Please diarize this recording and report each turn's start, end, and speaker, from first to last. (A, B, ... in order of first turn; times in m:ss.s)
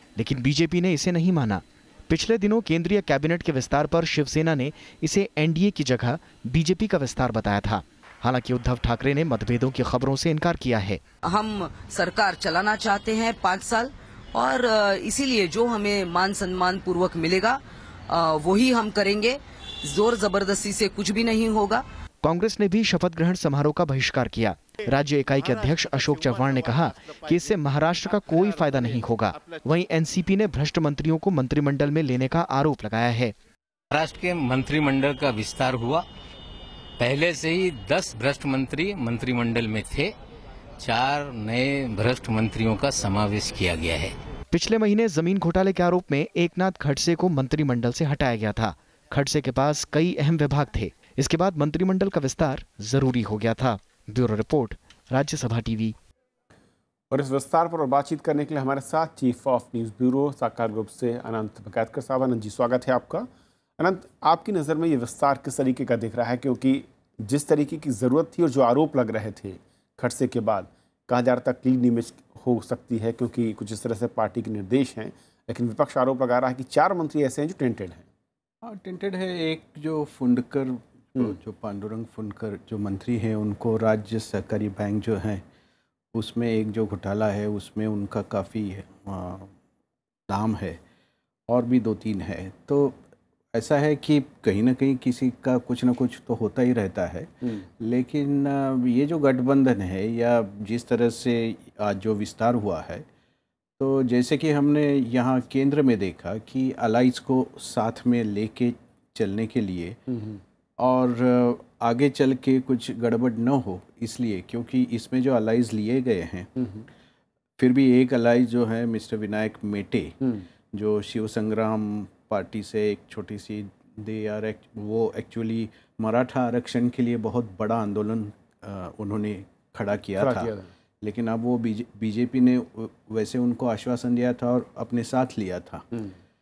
0:00.2-0:11.0 A
0:11.3-0:21.8 B
0:22.2-0:33.3 A
0:33.9-0:36.0 C
0:37.0-0:40.1 C
0:40.8-0:44.2 C
0:44.5-0:56.0 A
0:57.1-1:18.0 D
1:18.6-1:25.4 E
1:26.1-1:29.5 E
1:30.3-1:30.8 E
1:31.5-1:33.0 E
1:33.5-1:43.0 E
1:43.8-1:50.0 E
1:50.1-1:50.4 D
1:50.8-1:56.5 E
1:56.6-1:56.9 D
1:57.6-2:00.2 E
2:00.2-2:00.5 D
2:00.7-2:15.9 E
2:10.2-2:10.7 D